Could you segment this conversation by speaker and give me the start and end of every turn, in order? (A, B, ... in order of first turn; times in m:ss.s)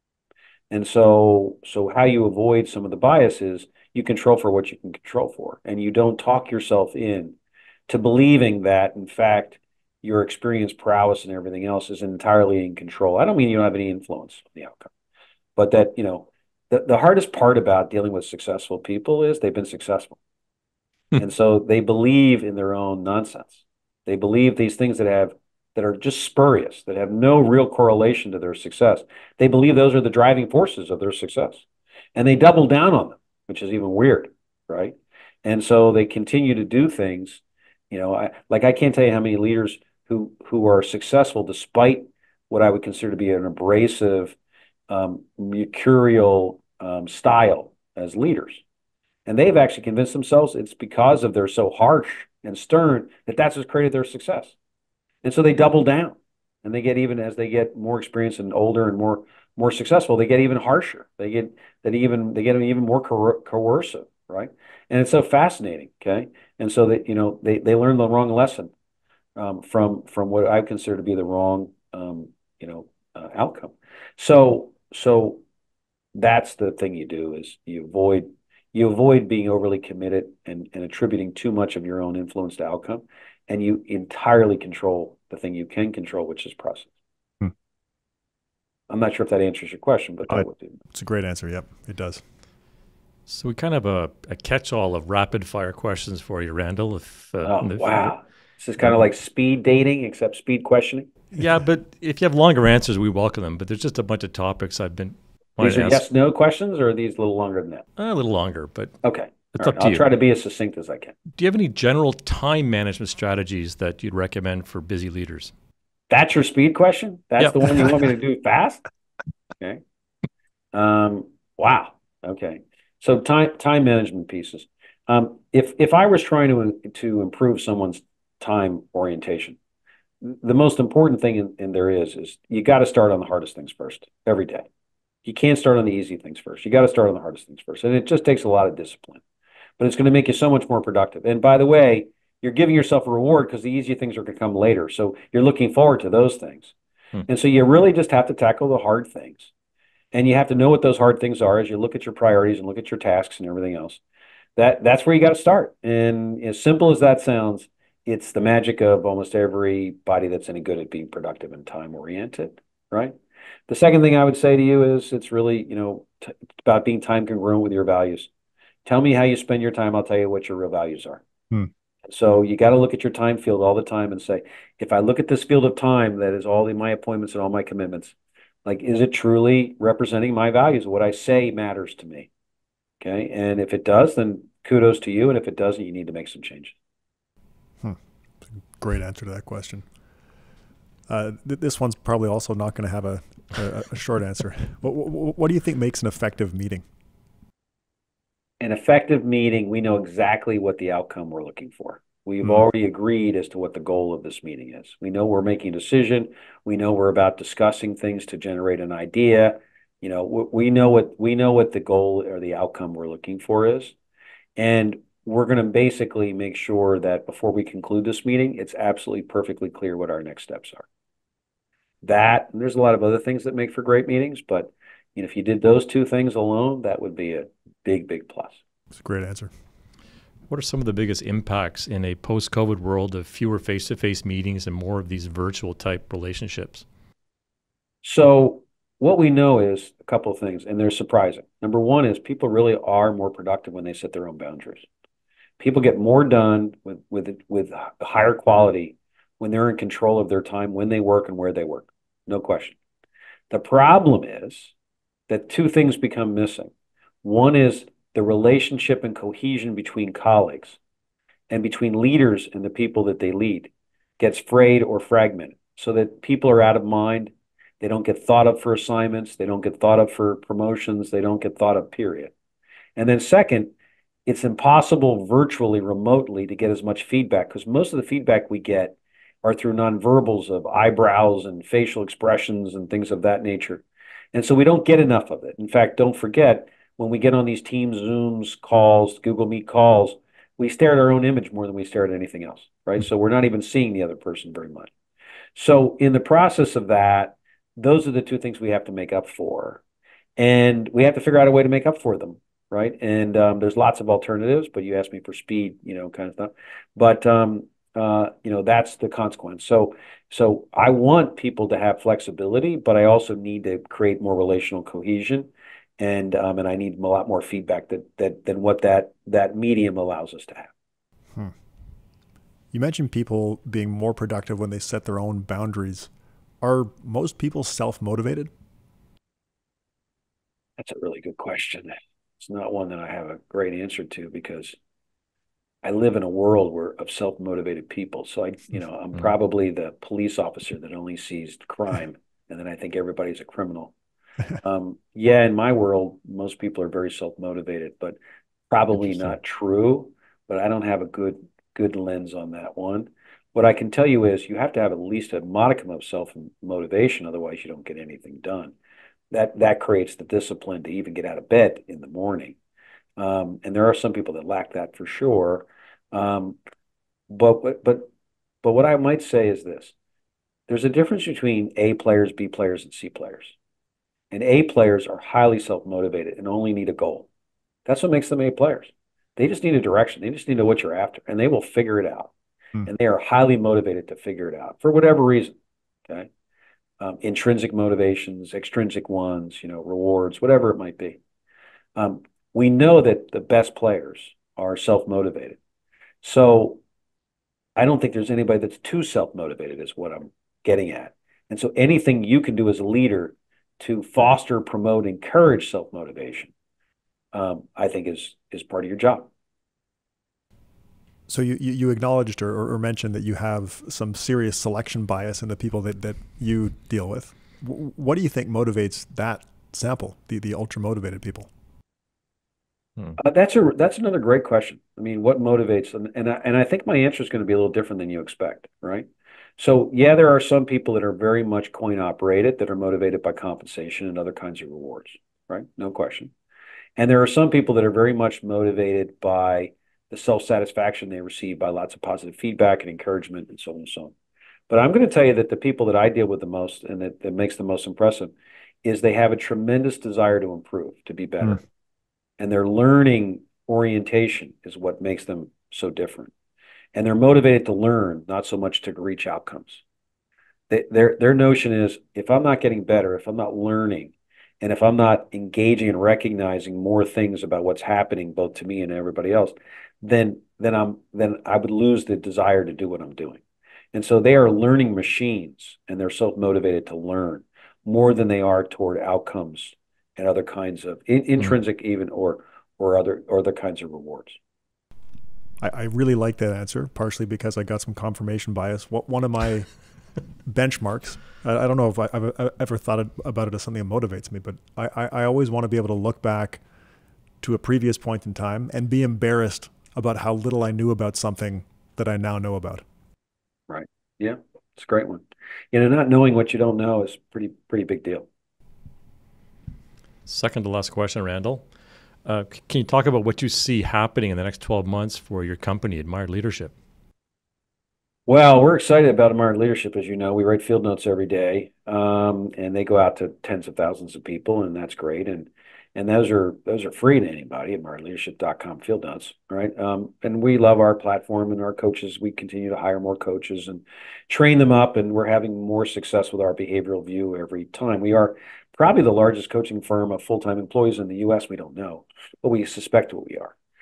0:00.7-0:07.4 A
0:07.9-0:14.9 A
0:15.6-0:20.2 A
0:21.2-0:31.6 A
0:32.2-0:44.4 A
0:44.9-0:48.6 A
0:49.3-0:54.6 A
0:55.2-1:08.7 A
1:09.4-1:15.4 A
1:16.2-1:26.9 A
1:28.9-1:30.8 A
1:30.3-1:32.2 B
1:33.3-1:38.1 C
1:37.4-1:41.1 A
1:41.4-1:46.0 C
1:45.6-1:47.8 A
1:48.0-1:49.0 C
1:49.0-1:51.2 A
1:49.5-1:50.1 C
1:51.4-1:55.5 C
1:56.1-1:58.8 A
1:57.4-1:57.9 C
2:00.7-2:09.6 A
2:10.2-2:14.7 A
2:15.2-2:19.2 A
2:19.8-2:26.7 A
2:27.3-2:29.5 A
2:30.1-2:34.0 A
2:34.6-2:43.2 A
2:43.7-2:48.3 A
2:48.8-2:51.2 A
2:52.0-3:02.3 A
3:03.0-3:06.8 A
3:07.8-3:09.9 B
3:11.1-3:16.8 B
3:18.6-3:34.0 A
3:34.6-3:40.9 A
3:42.0-3:48.6 A
3:48.9-3:49.5 B
3:50.5-3:56.8 C
3:58.0-4:04.9 A
4:05.6-4:12.8 A
4:13.5-4:14.7 A
4:15.3-4:16.7 A
4:17.2-4:20.8 A
4:21.5-4:32.3 A
4:33.0-4:33.7 A
4:34.3-4:54.9 A
4:55.6-4:59.8 A
5:00.4-5:20.7 A
5:22.7-5:28.5 B
5:30.8-5:34.8 A
5:35.8-5:43.9 A
5:44.6-5:48.2 A
5:48.7-5:58.8 A
5:59.3-6:02.6 A
6:03.2-6:06.6 A
6:07.3-6:08.1 A
6:08.6-6:09.9 A
6:10.7-6:13.6 A
6:14.3-6:17.3 A
6:17.9-6:22.3 A
6:22.8-6:25.6 A
6:27.0-6:31.2 A
6:32.0-6:35.6 A
6:36.2-6:36.8 A
6:37.8-6:46.5 A
6:47.3-6:49.3 A
6:51.3-7:01.5 B
7:03.2-7:09.1 A
7:09.6-7:16.3 A
7:17.0-7:24.1 A
7:24.7-7:28.3 A
7:28.8-7:31.6 A
7:32.4-7:36.3 A
7:36.9-7:39.8 A
7:40.7-7:53.4 A
7:53.9-8:04.4 A
8:05.6-8:09.7 B
8:10.4-8:16.6 B
8:17.4-8:22.8 B
8:23.7-8:28.3 A
8:30.3-8:31.6 C
8:32.2-8:36.7 C
8:38.3-9:03.6 A